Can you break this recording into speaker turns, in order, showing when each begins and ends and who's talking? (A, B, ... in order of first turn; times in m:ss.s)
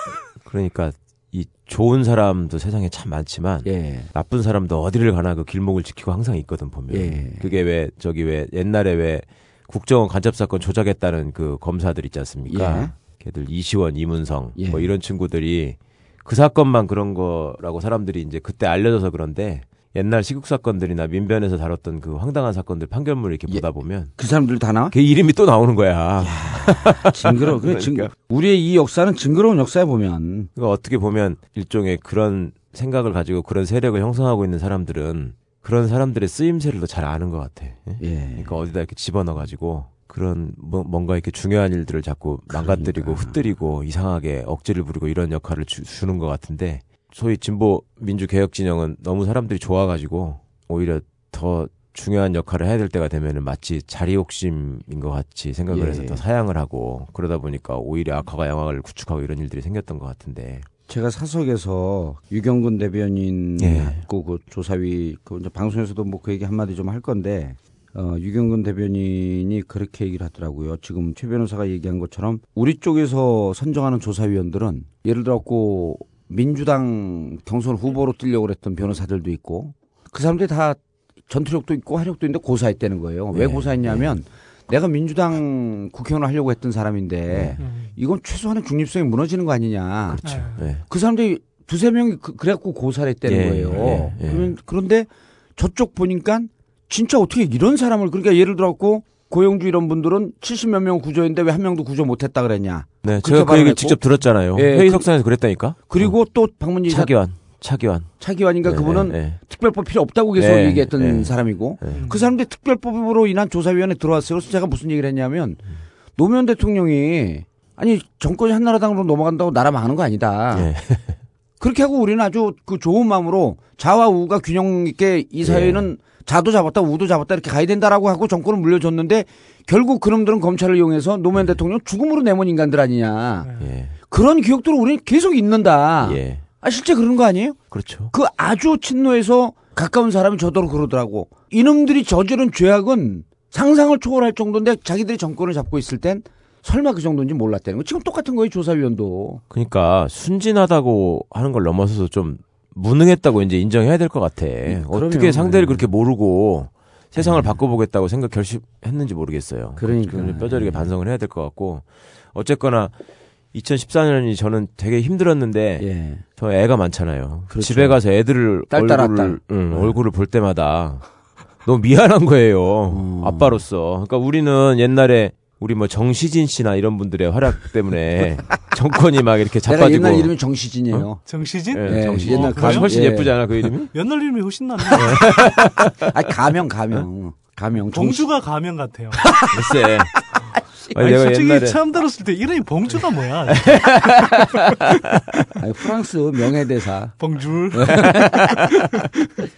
0:00.4-0:24.1 A
0:03.6-0:04.1 B
0:06.9-0:07.6 B
0:12.5-0:13.0 B
0:14.6-0:14.9 B
0:23.5-0:25.0 B
0:24.9-0:28.1 A
0:26.2-0:30.5 B
0:30.6-1:00.7 A
0:38.0-0:38.6 B
0:42.5-0:43.4 B
0:55.7-0:56.2 B
1:00.9-1:47.2 B
1:03.6-1:04.0 A
1:23.3-1:24.2 A
1:27.3-1:27.6 A
1:27.6-1:27.9 C
1:30.1-1:30.8 A
1:30.2-1:30.8 C
1:33.2-1:34.5 A
1:43.0-1:46.2 A
1:46.8-1:49.4 A
1:48.2-1:55.6 B
1:50.4-1:52.1 A
1:51.9-1:52.3 C
1:56.2-2:00.7 B
2:00.5-2:01.2 A
2:01.6-2:13.5 B
2:05.4-2:05.9 A
2:13.4-2:13.7 C
2:13.6-2:13.9 A
2:14.1-2:29.4 B
2:16.0-2:16.4 A
2:17.7-2:18.1 A
2:29.5-2:42.9 A
2:34.7-2:35.9 B
2:37.2-2:37.6 B
2:39.8-2:40.9 B
2:43.5-2:51.0 A
2:45.8-2:46.2 B
2:47.5-2:48.0 B
2:48.7-2:50.0 B
2:51.6-3:00.3 A
2:52.9-2:53.7 B
2:59.6-3:01.2 B
3:01.3-3:03.1 C
3:01.7-3:03.9 A
3:01.8-3:03.7 B
3:03.9-3:05.1 C
3:04.8-3:08.3 B
3:05.0-3:06.1 A
3:07.9-3:09.4 C
3:09.2-3:11.1 B
3:09.5-3:10.1 A
3:10.9-3:11.8 A
3:11.0-3:13.9 C
3:13.5-3:14.6 A
3:15.6-3:17.2 B
3:17.2-3:18.0 C
3:17.7-3:18.7 B
3:18.0-3:18.6 A